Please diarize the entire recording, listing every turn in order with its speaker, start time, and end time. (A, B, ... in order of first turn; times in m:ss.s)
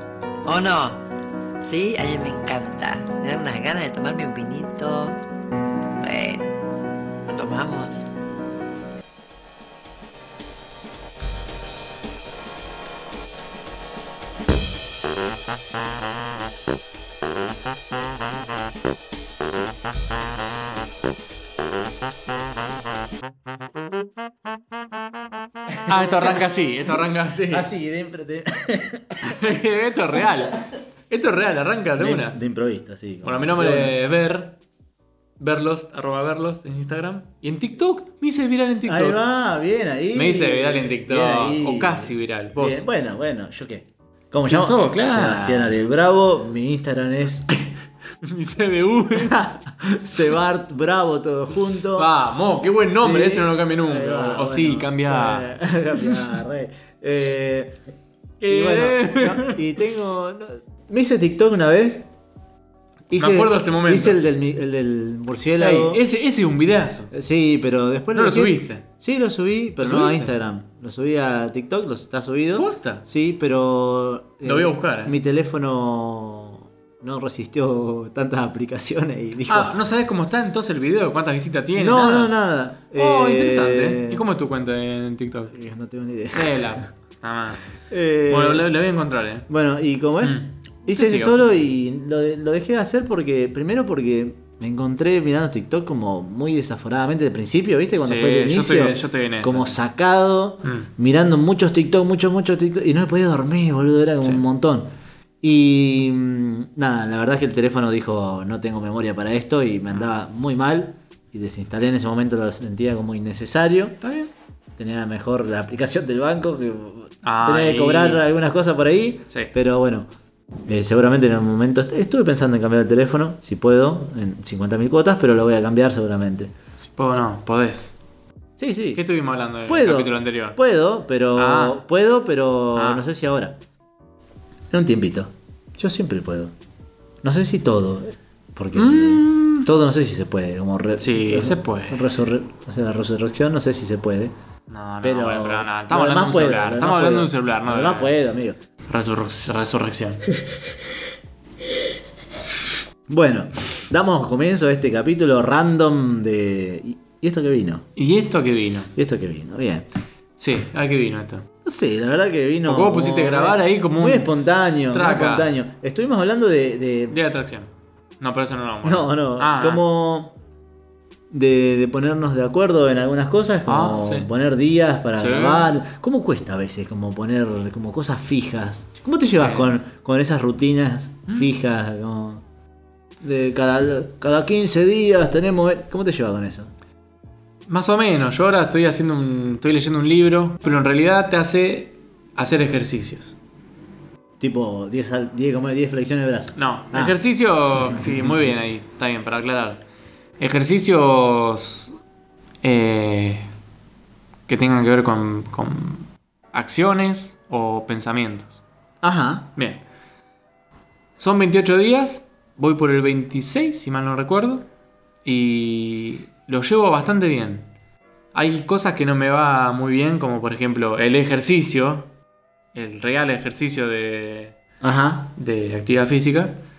0:00.4-0:01.0 A
0:01.6-0:05.2 A
0:06.0-0:06.5 A
0:07.3-0:08.0 A
0:25.7-0:26.4 B
0:25.9-0:27.7 C
0:27.5-0:29.4 B
0:29.2-0:32.4 C
0:32.0-0:34.0 B
0:33.2-0:34.6 C
0:35.4-0:39.2 C
0:38.8-0:47.7 B
0:40.1-0:42.8 C
0:44.5-0:45.7 C
0:48.2-0:49.4 C
0:49.2-0:52.1 B
0:51.9-0:55.5 C
0:52.9-0:57.8 B
0:58.4-0:59.6 C
0:58.5-1:02.1 B
1:03.1-1:06.0 B
1:03.2-1:04.2 C
1:05.6-1:07.1 C
1:07.1-1:19.7 B
1:08.1-1:08.8 C
1:09.8-1:10.3 C
1:12.6-1:13.0 C
1:14.4-1:15.2 C
1:19.5-1:22.3 C
1:21.7-1:24.2 B
1:22.9-1:25.5 C
1:25.5-1:26.8 B
1:26.3-1:27.6 C
1:27.9-1:28.7 B
1:28.3-1:29.5 C
1:29.5-1:44.9 B
1:30.2-1:31.4 C
1:38.0-1:39.8 C
1:45.4-1:54.0 B
1:54.0-1:54.3 C
1:54.8-2:00.1 B
1:57.2-1:58.2 C
2:00.7-2:06.5 B
2:06.8-2:07.9 C
2:08.6-2:09.0 B
2:08.9-2:10.6 C
2:09.7-2:13.6 B
2:11.3-2:11.8 C
2:12.7-2:13.0 C
2:14.7-2:16.5 B
2:17.2-2:24.3 B
2:18.7-2:19.7 C
2:21.0-2:22.0 C
2:24.7-2:28.1 C
2:25.0-2:28.6 B
2:28.9-2:30.2 C
2:33.1-2:37.9 B
2:38.0-2:38.9 C
2:38.9-2:39.8 B
2:40.4-2:41.5 C
2:41.6-2:47.2 B
2:42.6-2:44.3 C
2:44.9-2:45.5 C
2:47.1-2:49.8 C
2:48.8-2:50.3 B
2:51.3-3:02.4 B
2:53.6-2:54.3 C
2:55.2-2:55.7 C
2:59.4-2:59.7 C
3:03.2-3:06.7 B
3:07.7-3:13.3 C
3:14.4-3:17.2 B
3:16.5-3:19.8 C
3:17.8-3:18.3 B
3:20.4-3:21.9 C
3:22.6-3:23.5 C
3:24.5-3:28.6 C
3:29.0-3:29.5 B
3:29.6-3:29.8 C
3:31.2-3:34.6 C
3:35.2-3:37.7 C
3:38.3-3:42.1 C
3:42.7-3:44.6 C
3:44.8-3:45.3 B
3:45.4-3:46.6 C